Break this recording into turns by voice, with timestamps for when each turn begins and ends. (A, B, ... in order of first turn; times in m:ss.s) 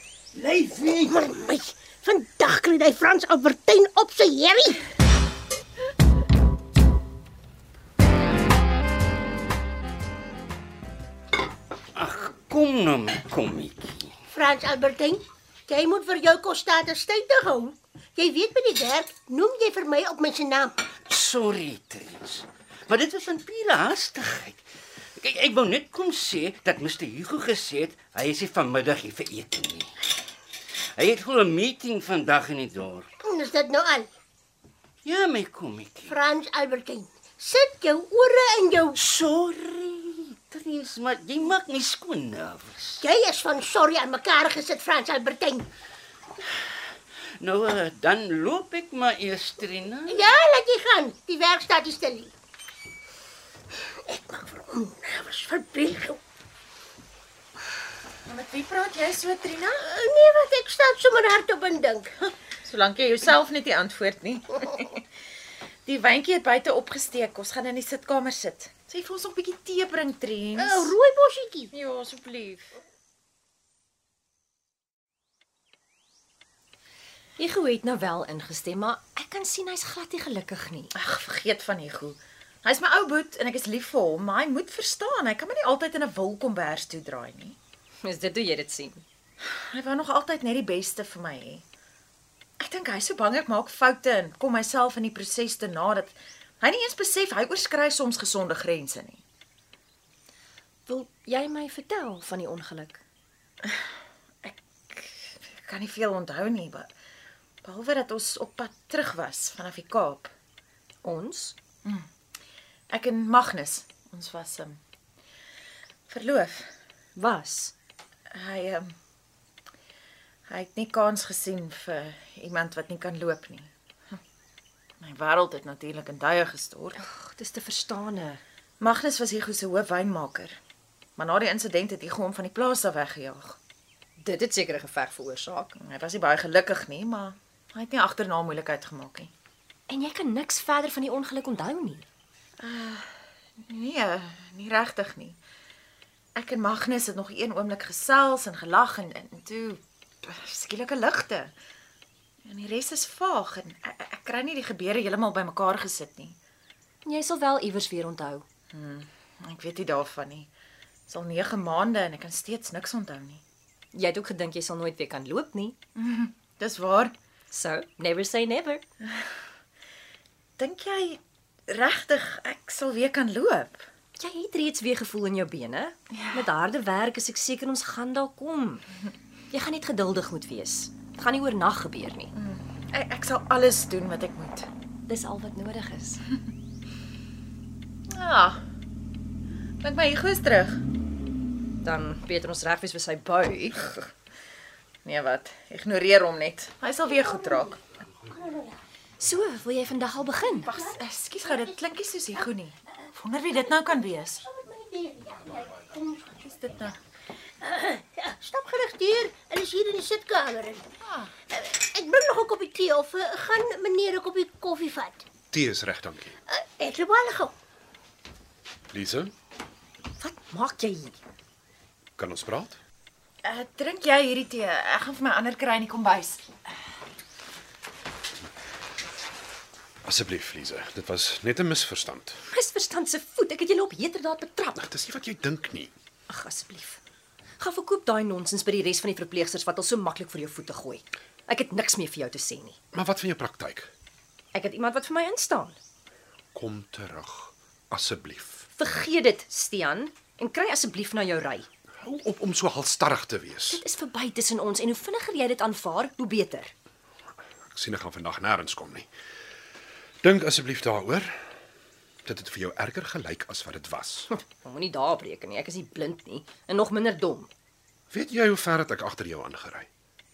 0:00.3-0:01.2 A
0:01.0-0:04.8 B
0:11.9-0:14.1 A
0:14.3-0:20.8 B
0:21.0-0:24.6 A
0:25.2-0:30.0 A
0:30.9-0:33.1 A
0:33.2-0:34.1 B
0:35.0-0:36.1 A
0:36.1-0:39.0 B
0:38.9-0:43.0 A
0:43.0-0:45.7 B
0:47.4-0:50.3 A
0:50.1-0:52.3 B
0:54.0-0:56.2 B
0:58.3-0:59.8 C
0:59.8-1:02.2 B
1:02.6-1:05.0 C
1:05.8-1:10.9 C
1:10.6-1:11.7 B
1:11.7-1:12.7 C
1:17.4-1:20.9 D
1:20.9-1:27.6 C
1:28.0-1:29.0 D
1:29.4-1:31.6 C
1:32.6-1:39.2 C
1:40.9-1:43.0 D
1:44.4-1:46.9 C
1:47.6-1:50.3 C
1:51.0-1:51.6 D
1:52.9-1:54.8 C
1:56.1-1:56.7 C
1:57.2-1:57.7 D
1:58.3-1:58.9 C
2:00.5-2:04.2 C
2:05.0-2:07.0 C
2:07.0-2:08.4 D
2:08.8-2:10.6 C
2:11.2-2:13.6 C
2:14.2-2:15.7 D
2:15.8-2:19.3 C
2:19.9-2:22.0 D
2:22.6-2:25.4 C
2:26.4-2:31.5 C
2:32.4-2:36.4 C
2:37.0-2:38.4 D
2:38.7-2:40.5 C
2:41.1-2:43.4 C
2:43.9-2:45.8 D
2:45.9-2:47.1 C
2:47.5-2:48.8 D
2:50.6-2:53.9 C
2:54.2-2:58.8 D
2:56.1-2:56.4 C
2:59.5-3:02.3 D
3:02.3-3:04.7 C
3:05.1-3:06.2 D
3:08.1-3:08.6 C
3:09.8-3:10.8 C
3:11.8-3:14.0 D
3:15.0-3:17.8 C
3:17.1-3:18.8 B
3:19.2-3:20.7 D
3:20.6-3:21.7 B
3:20.6-3:24.4 C
3:23.6-3:26.5 B
3:26.4-3:27.0 C
3:27.6-3:30.8 B
3:31.0-3:31.3 C
3:31.5-3:35.2 B
3:35.5-3:36.3 E
3:36.5-3:37.5 B
3:38.9-3:39.3 E
3:40.2-3:41.2 D
3:42.2-3:42.8 E
3:43.4-3:46.5 C
3:50.0-3:52.4 E
3:52.5-3:54.9 D
3:54.8-3:55.9 E
3:56.3-3:57.0 D
3:57.6-4:02.8 D
4:02.9-4:03.9 E
4:04.5-4:05.8 D
4:06.5-4:08.7 E
4:08.8-4:11.7 D
4:12.0-4:13.8 E
4:13.7-4:16.7 D
4:17.7-4:19.1 E
4:20.2-4:21.4 E
4:22.2-4:24.3 E
4:24.5-4:27.5 D
4:28.1-4:29.9 E